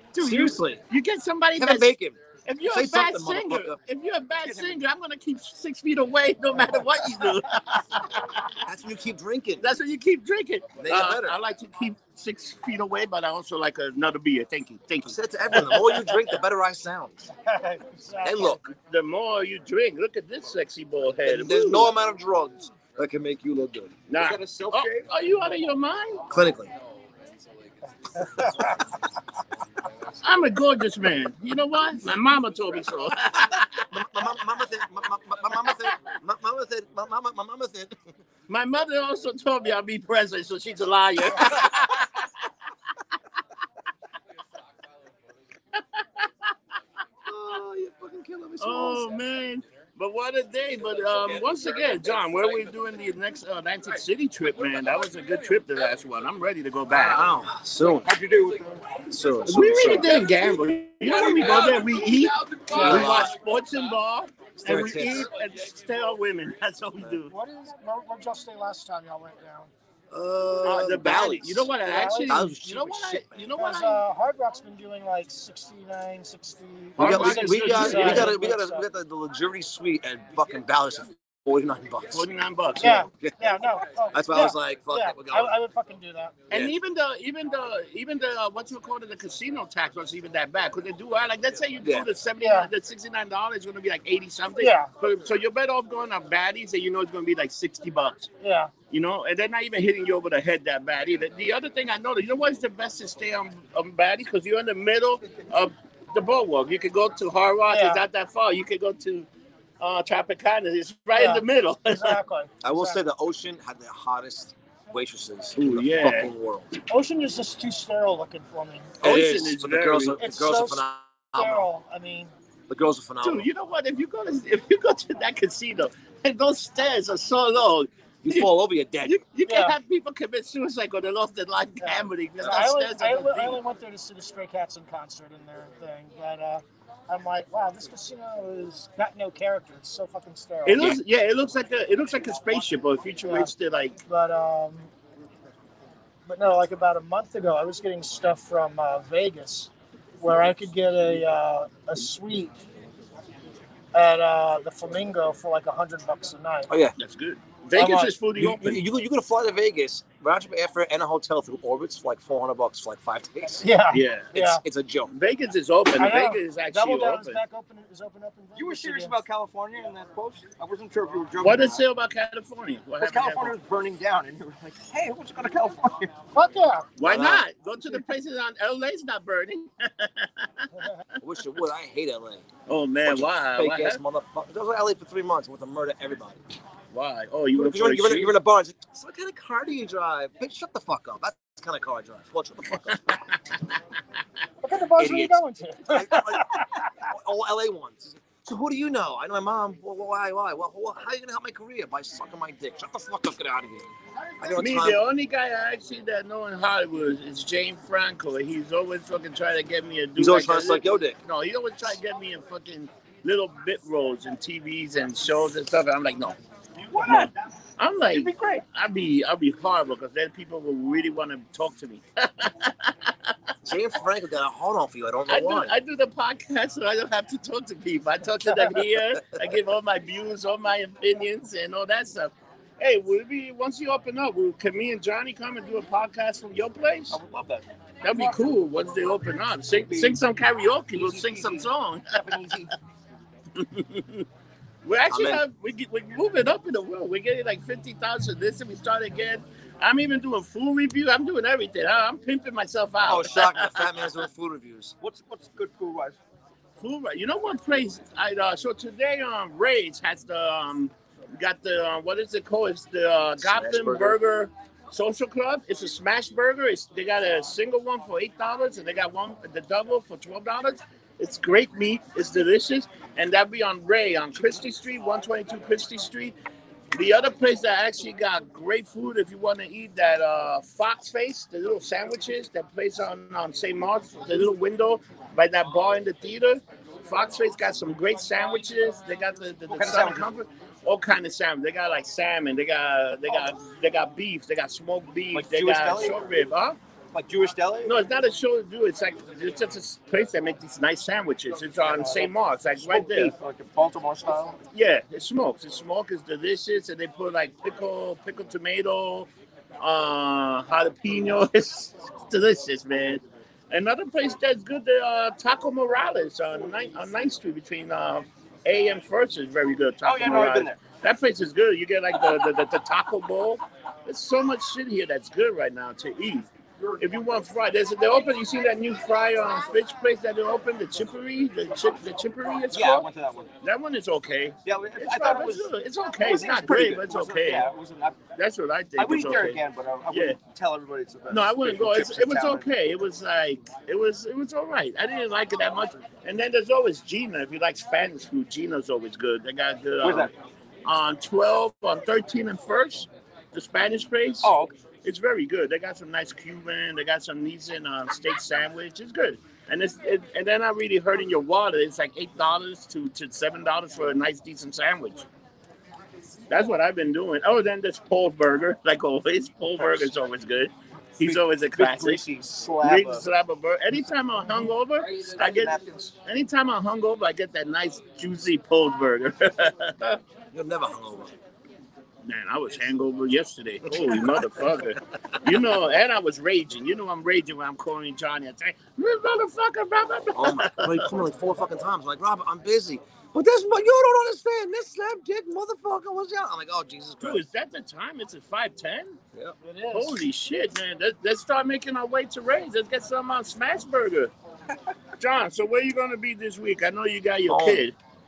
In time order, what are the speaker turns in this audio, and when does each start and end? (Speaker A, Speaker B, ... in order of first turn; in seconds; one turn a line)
Speaker A: 0.1-1.9
Speaker B: 0.2-0.8
Speaker B: 1.6-3.8
Speaker A: 2.5-8.5
Speaker C: 4.4-4.8
Speaker B: 8.6-9.6
Speaker A: 9.6-16.3
Speaker B: 10.8-11.4
Speaker B: 15.0-17.3
Speaker D: 17.4-18.6
Speaker B: 18.2-18.7
Speaker A: 18.6-21.9
Speaker B: 21.2-23.9
Speaker A: 24.1-26.3
Speaker C: 24.1-25.1
Speaker B: 26.3-26.7
Speaker A: 30.2-34.0
Speaker B: 33.9-38.0
Speaker A: 38.5-42.3
Speaker A: 45.7-46.5
Speaker B: 47.3-49.2
Speaker A: 48.6-57.3
Speaker B: 56.9-58.1
Speaker C: 58.0-59.0
Speaker B: 59.1-60.3
Speaker A: 59.5-67.3
Speaker B: 62.7-63.3
Speaker B: 64.6-65.3
Speaker D: 67.3-69.7
Speaker B: 70.1-71.7
Speaker A: 70.6-74.0
Speaker D: 71.8-72.4
Speaker B: 72.3-73.5
Speaker D: 73.6-78.8
Speaker A: 77.0-78.4
Speaker B: 77.0-82.3
Speaker A: 82.1-83.1
Speaker D: 82.8-86.4
Speaker B: 82.8-83.5
Speaker B: 84.1-85.6
Speaker A: 86.5-98.3
Speaker B: 91.8-92.1
Speaker D: 92.4-92.7
Speaker D: 94.6-94.9
Speaker D: 98.4-98.7
Speaker A: 98.9-109.3
Speaker D: 107.7-108.0
Speaker A: 109.8-112.2
Speaker D: 111.1-113.0
Speaker B: 112.6-116.7
Speaker A: 115.6-116.3
Speaker D: 116.9-119.0
Speaker B: 119.0-121.7
Speaker A: 119.0-120.2
Speaker D: 120.2-120.8
Speaker D: 121.3-122.3
Speaker B: 122.7-123.5
Speaker A: 123.2-128.5
Speaker B: 128.2-129.2
Speaker A: 129.0-133.6
Speaker D: 129.4-129.8
Speaker D: 131.8-140.9
Speaker A: 140.6-144.0
Speaker D: 143.2-143.5
Speaker D: 144.1-144.9
Speaker D: 146.3-152.6
Speaker D: 153.9-156.7
Speaker B: 156.7-156.9
Speaker A: 157.0-158.8
Speaker D: 157.7-158.1
Speaker B: 158.3-163.7
Speaker D: 163.6-164.6
Speaker A: 163.9-164.4
Speaker B: 164.3-165.1
Speaker A: 165.1-167.4
Speaker D: 166.0-169.2
Speaker C: 168.6-171.8
Speaker A: 171.4-173.6
Speaker C: 173.0-176.1
Speaker D: 176.3-176.9
Speaker A: 177.0-180.7
Speaker B: 177.0-177.4
Speaker B: 181.2-182.4
Speaker A: 182.7-184.0
Speaker B: 183.0-186.4
Speaker A: 186.9-188.4
Speaker B: 187.6-193.2
Speaker D: 194.6-196.9
Speaker B: 195.0-203.9
Speaker B: 204.4-205.0
Speaker A: 204.6-216.4
Speaker B: 210.2-211.2
Speaker C: 216.8-217.3
Speaker A: 216.9-223.3
Speaker C: 218.1-218.6
Speaker B: 223.6-225.7
Speaker A: 225.3-237.2
Speaker C: 237.1-237.7
Speaker A: 238.0-242.2
Speaker C: 239.7-240.2
Speaker C: 240.9-242.7
Speaker A: 243.6-244.2
Speaker A: 244.8-254.1
Speaker B: 245.1-245.4
Speaker B: 253.1-254.9
Speaker C: 255.0-256.2
Speaker A: 256.8-276.4
Speaker B: 263.4-264.2
Speaker A: 276.9-296.8
Speaker C: 289.7-290.3
Speaker C: 295.3-296.4
Speaker C: 297.1-297.9
Speaker A: 297.8-303.3
Speaker C: 301.9-304.6
Speaker A: 304.7-309.3
Speaker A: 309.8-326.5
Speaker C: 320.0-320.8
Speaker A: 327.0-333.1
Speaker C: 332.7-333.5
Speaker A: 333.6-337.7
Speaker C: 334.6-338.2
Speaker A: 338.4-340.4
Speaker C: 338.9-342.7
Speaker A: 341.3-350.3
Speaker C: 350.0-350.3
Speaker A: 350.9-354.5
Speaker C: 354.4-354.7
Speaker A: 355.0-365.3
Speaker A: 366.5-372.2
Speaker C: 371.2-373.3
Speaker A: 372.8-380.2
Speaker C: 375.0-376.1
Speaker B: 380.5-381.4
Speaker A: 382.2-391.2
Speaker B: 383.9-384.8
Speaker B: 390.4-397.4
Speaker A: 397.2-399.2
Speaker D: 399.6-400.2
Speaker A: 399.9-404.3
Speaker A: 405.2-407.9
Speaker B: 407.5-407.8